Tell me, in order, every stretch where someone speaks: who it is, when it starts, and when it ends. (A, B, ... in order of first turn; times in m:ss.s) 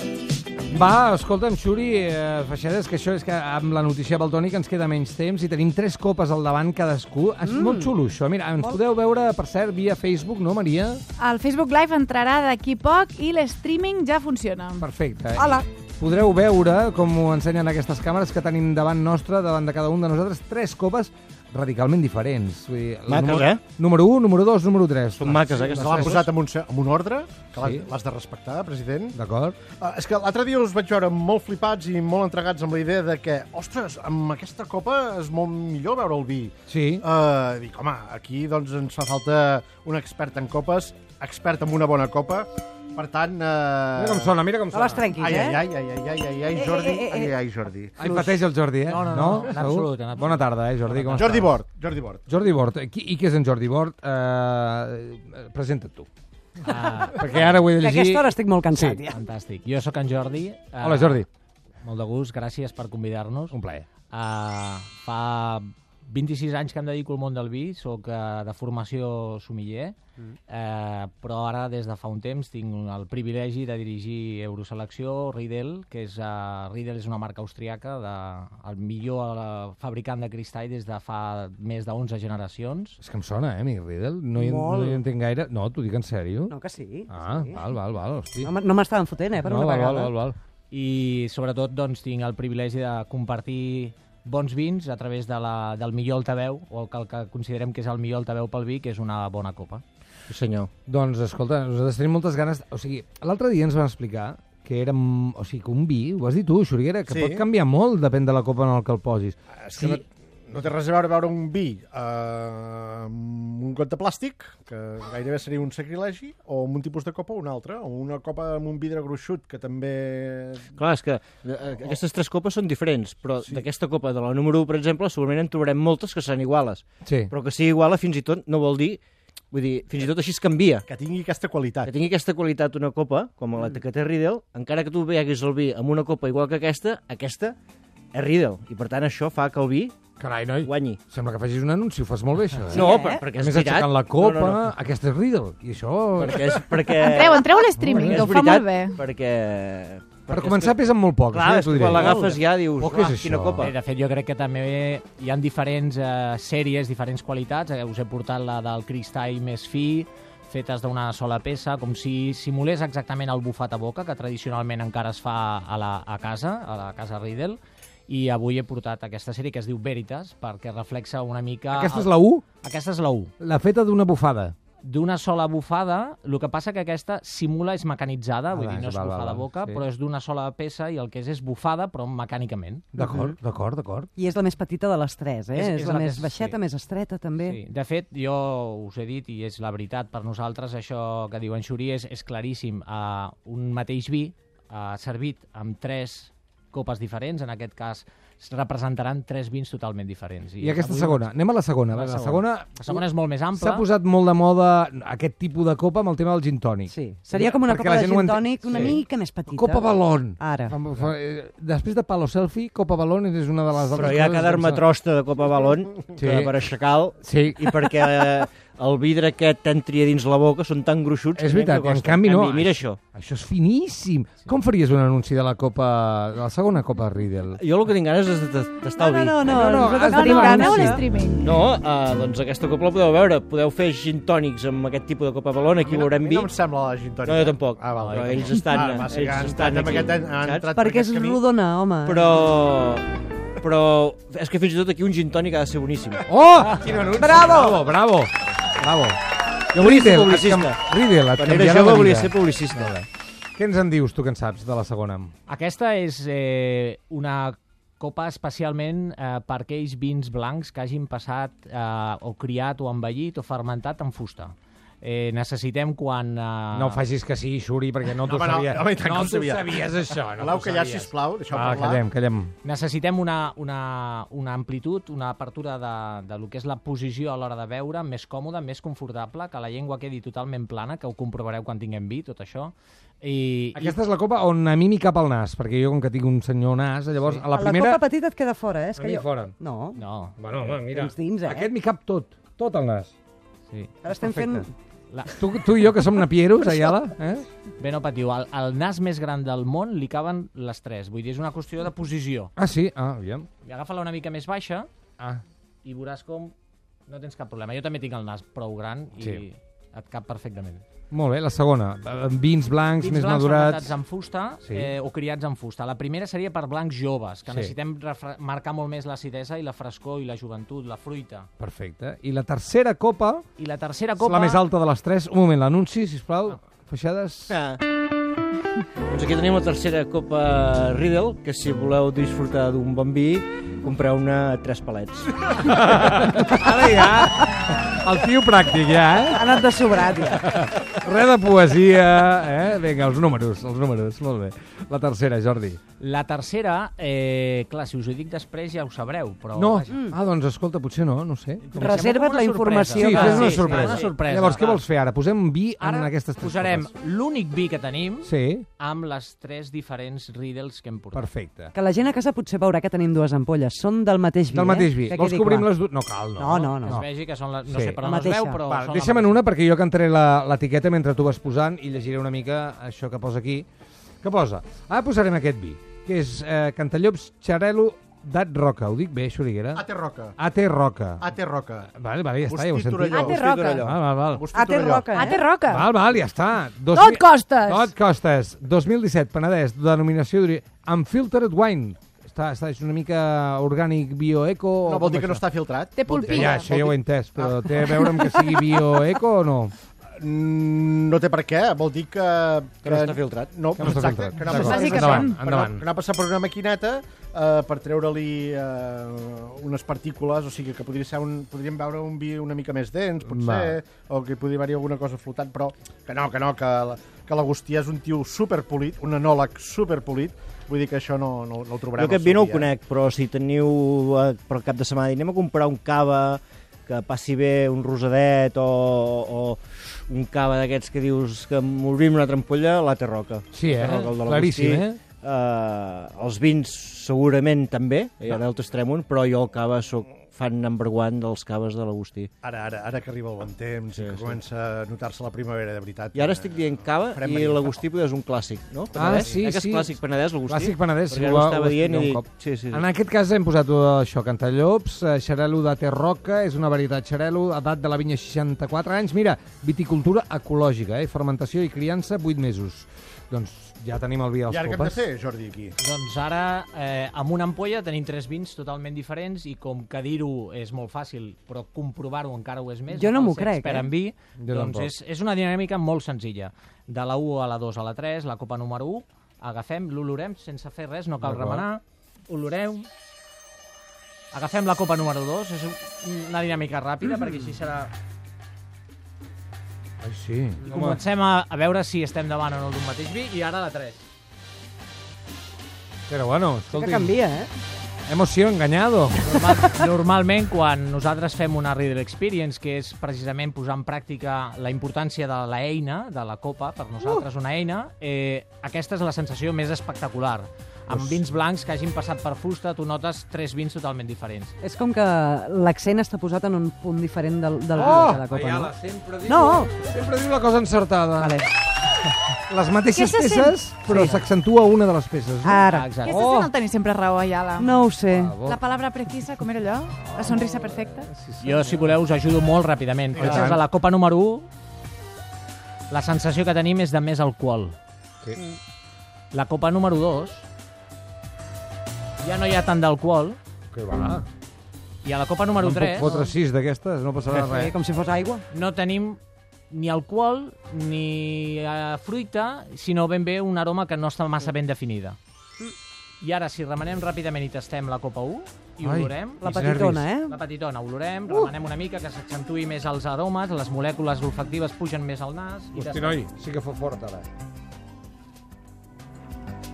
0:00.7-0:11.0 A
0:07.5-0:07.9 B
0:11.2-0:14.9 C
0:14.8-0:26.2 A
0:15.4-0:15.6 B
0:23.1-0:23.6 D
0:25.2-0:26.3 D
0:25.5-0:29.2 E
0:27.6-0:27.8 A
0:29.1-0:29.6 A
0:29.8-0:44.3 E
0:36.7-0:37.0 A
0:44.0-0:45.1 A
0:44.7-0:45.6 B
0:45.2-0:47.9 E
0:46.5-0:47.3 B
0:48.0-0:51.5 A
0:48.0-0:48.4 B
0:48.9-0:51.4 F
0:51.1-0:52.2 E
0:52.3-0:56.1 A
0:56.6-0:57.6 F
0:57.0-0:59.0 A
0:57.8-0:59.2 B
0:59.1-1:01.2 F
1:00.8-1:01.3 A
1:01.8-1:03.6 F
1:03.5-1:03.9 A
1:04.1-1:10.0 F
1:10.5-1:23.0 F
1:23.0-1:26.5 A
1:24.4-1:25.0 B
1:26.5-1:27.6 B
1:27.1-1:28.5 A
1:28.4-1:30.2 B
1:29.4-1:30.4 A
1:30.7-1:39.8 F
1:40.3-1:40.7 D
1:40.9-1:50.0 A
1:47.1-1:47.4 E
1:49.6-2:00.8 E
2:00.8-2:09.0 D
2:01.7-2:02.0 E
2:07.0-2:07.3 A
2:09.5-2:10.8 D
2:10.9-2:12.0 E
2:11.8-2:17.6 D
2:18.1-2:20.0 D
2:20.2-2:26.6 A
2:20.6-2:21.0 D
2:22.7-2:23.2 B
2:22.7-2:24.6 D
2:26.2-2:30.8 D
2:27.0-2:29.0 C
2:27.8-2:28.3 A
2:30.3-2:33.7 A
2:31.3-2:33.8 D
2:33.6-2:52.1 F
2:51.7-2:52.4 A
2:52.6-2:53.3 F
2:53.4-2:54.6 A
2:54.8-3:02.9 F
2:58.5-2:59.8 A
3:02.9-3:04.1 A
3:03.0-3:03.3 B
3:04.2-3:07.6 B
3:05.5-3:06.6 F
3:07.4-3:21.3 F
3:20.6-3:23.0 A
3:21.9-3:23.9 F
3:23.5-3:26.9 A
3:26.9-3:30.8 B
3:27.4-3:34.8 A
3:33.9-3:43.0 D
3:36.2-3:36.7 A
3:37.2-3:38.3 A
3:41.4-3:47.6 A
3:47.6-3:49.4 D
3:49.0-3:51.0 B
3:49.4-3:51.1 A
3:50.1-3:51.4 C
3:51.4-3:56.5 D
3:55.8-4:01.4 E
3:57.2-4:00.7 D
4:00.7-4:02.3 B
4:02.1-4:03.1 D
4:03.6-4:06.2 D
4:06.3-4:09.2 A
4:07.2-4:07.8 B
4:09.7-4:15.3 A
4:09.8-4:10.8 D
4:11.4-4:12.9 D
4:15.5-4:27.0 F
4:26.7-4:32.5 A
4:28.2-4:32.0 E
4:32.6-4:44.0 F
4:43.8-4:48.0 A
4:47.5-4:50.0 B
4:49.0-4:49.6 A
4:50.0-4:50.4 F
4:50.4-4:53.1 A
4:50.9-4:51.7 B
4:53.7-4:55.4 F
4:54.0-4:54.7 B
4:55.3-4:57.5 A
4:57.8-5:02.5 F
5:02.6-5:03.5 A
5:03.6-5:04.9 F
5:05.8-5:06.5 F
5:07.1-5:10.8 F
5:11.1-5:14.0 A
5:13.0-5:21.5 F
5:14.6-5:14.9 A
5:17.5-5:17.7 A
5:21.6-5:23.5 A
5:23.6-5:24.6 F
5:24.2-5:27.6 A
5:27.5-5:27.8 D
5:29.1-5:35.5 D
5:35.5-5:39.6 A
5:39.3-5:40.4 B
5:40.2-5:45.8 A
5:46.0-5:50.0 F
5:49.6-5:52.0 A
5:49.9-5:50.2 B
5:51.7-5:54.8 F
5:51.7-5:53.7 B
5:53.0-5:56.9 A
5:55.8-6:01.3 F
5:58.2-5:58.7 A
6:01.1-6:01.7 A
6:01.7-6:05.8 B
6:04.5-6:07.1 A
6:06.4-6:07.0 B
6:06.5-6:09.4 F
6:07.7-6:08.0 A
6:08.0-6:08.6 B
6:08.7-6:13.7 A
6:14.2-6:19.8 A
6:19.7-6:20.4 E
6:20.4-6:21.3 A
6:21.2-6:21.9 E
6:22.0-6:24.4 A
6:22.5-6:23.5 E
6:23.0-6:24.0 D
6:23.1-6:23.9 C
6:24.2-6:25.1 E
6:24.5-6:25.4 B
6:25.1-6:25.9 C
6:25.7-6:35.4 A
6:26.9-6:27.9 C
6:34.8-6:38.2 E
6:36.0-6:36.8 C
6:36.1-6:39.7 A
6:40.2-7:02.7 E
6:42.8-6:43.5 D
6:43.8-6:45.9 A
6:44.5-6:45.4 C
6:53.2-6:53.8 A
7:02.0-7:22.3 D
7:13.5-7:15.0 A
7:22.4-7:27.8 E
7:24.0-7:24.4 D
7:26.1-7:32.8 D
7:29.0-7:45.0 A
7:44.5-7:45.8 E
7:45.8-8:02.9 F
7:52.9-7:53.9 B
7:54.4-7:54.9 A
8:01.2-8:01.7 A
8:04.3-8:07.9 F
8:10.0-8:10.8 A
8:10.7-8:14.0 F
8:16.1-8:17.2 A
8:16.7-8:17.5 B
8:18.1-8:19.6 A
8:19.2-8:34.6 F
8:30.9-8:31.2 A
8:34.6-8:38.7 B
8:37.7-8:41.4 A
8:39.3-8:39.7 B
8:41.2-8:41.5 B
8:42.5-8:46.5 A
8:42.9-8:43.7 C
8:43.9-8:44.2 B
8:45.4-8:45.9 B
8:45.6-8:46.2 F
8:46.0-8:47.7 C
8:47.6-8:48.4 B
8:48.1-8:48.6 A
8:48.4-8:51.1 C
8:50.0-8:51.9 A
8:51.4-8:54.5 F
8:53.2-8:53.6 A
8:55.9-8:57.8 F
8:59.3-9:00.5 F
9:02.2-9:03.4 F
9:03.7-9:04.2 A
9:05.0-9:06.2 F
9:05.6-9:07.8 A
9:06.0-9:06.3 B
9:07.3-9:08.4 B
9:08.5-9:15.2 F
9:16.2-9:26.2 F
9:18.8-9:20.0 A
9:19.4-9:20.4 B
9:25.8-9:27.3 A